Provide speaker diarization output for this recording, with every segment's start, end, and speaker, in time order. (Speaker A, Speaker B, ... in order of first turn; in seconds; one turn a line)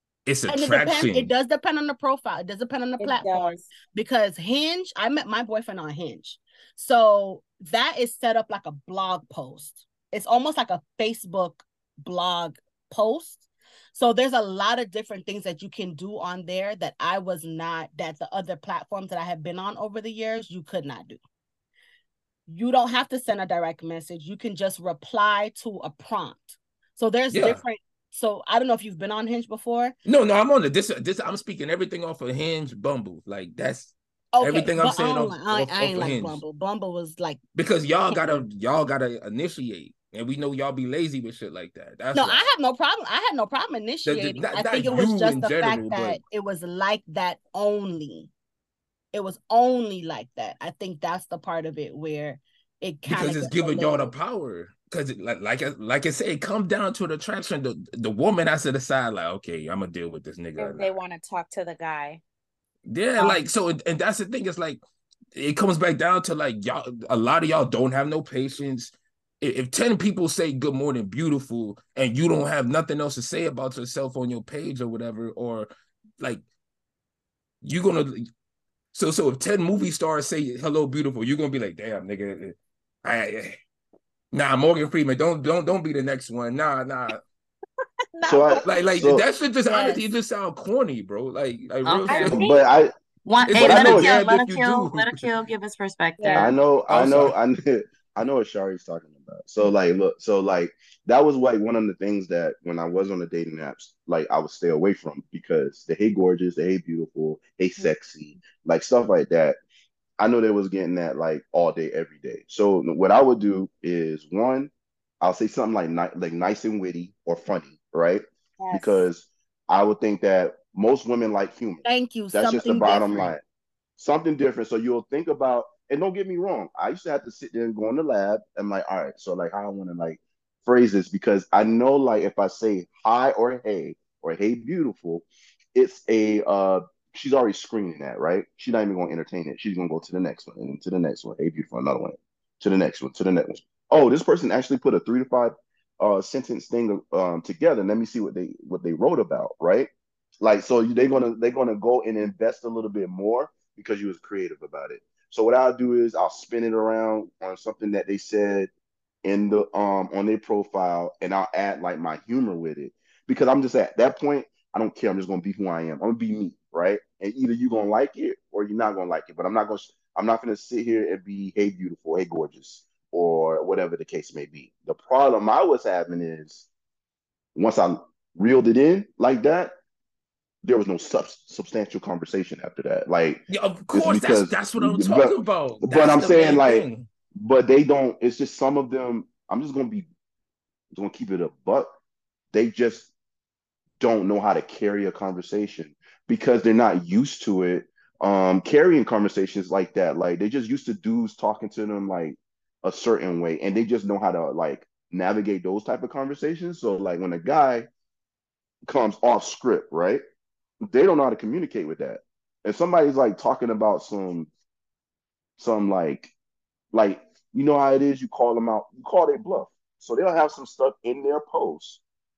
Speaker A: 0.2-1.3
Speaker B: 0.5-21.2
Speaker C: 3.0-3.7
Speaker B: 22.5-29.9
Speaker A: 27.3-27.6
Speaker A: 30.0-36.4
Speaker B: 34.3-37.4
Speaker A: 37.5-42.5
Speaker B: 38.1-38.4
Speaker B: 42.1-48.3
Speaker A: 44.0-46.2
Speaker B: 49.1-54.1
Speaker A: 53.0-60.9
Speaker C: 60.6-62.2
Speaker A: 62.9-64.8
Speaker A: 65.3-76.4
Speaker A: 77.6-78.2
Speaker A: 78.9-83.5
Speaker A: 84.3-87.2
Speaker C: 88.1-88.6
Speaker D: 88.2-89.2
Speaker A: 88.6-92.4
Speaker C: 89.7-90.0
Speaker E: 91.8-92.6
Speaker C: 92.1-92.6
Speaker D: 92.2-92.9
Speaker E: 93.2-96.5
Speaker A: 93.5-95.2
Speaker D: 93.6-94.1
Speaker C: 96.2-96.5
Speaker D: 96.3-109.6
Speaker A: 96.9-97.3
Speaker D: 110.2-123.4
Speaker C: 118.6-119.0
Speaker B: 121.8-123.3
Speaker D: 124.0-149.9
Speaker D: 150.4-158.7
Speaker D: 159.2-176.7
Speaker D: 177.5-179.7
Speaker D: 180.6-190.1
Speaker A: 183.5-187.1
Speaker D: 190.9-191.9
Speaker D: 192.5-193.1
Speaker D: 194.0-207.9
Speaker D: 208.9-210.2
Speaker D: 210.8-214.5
Speaker D: 215.6-216.3
Speaker D: 216.9-222.0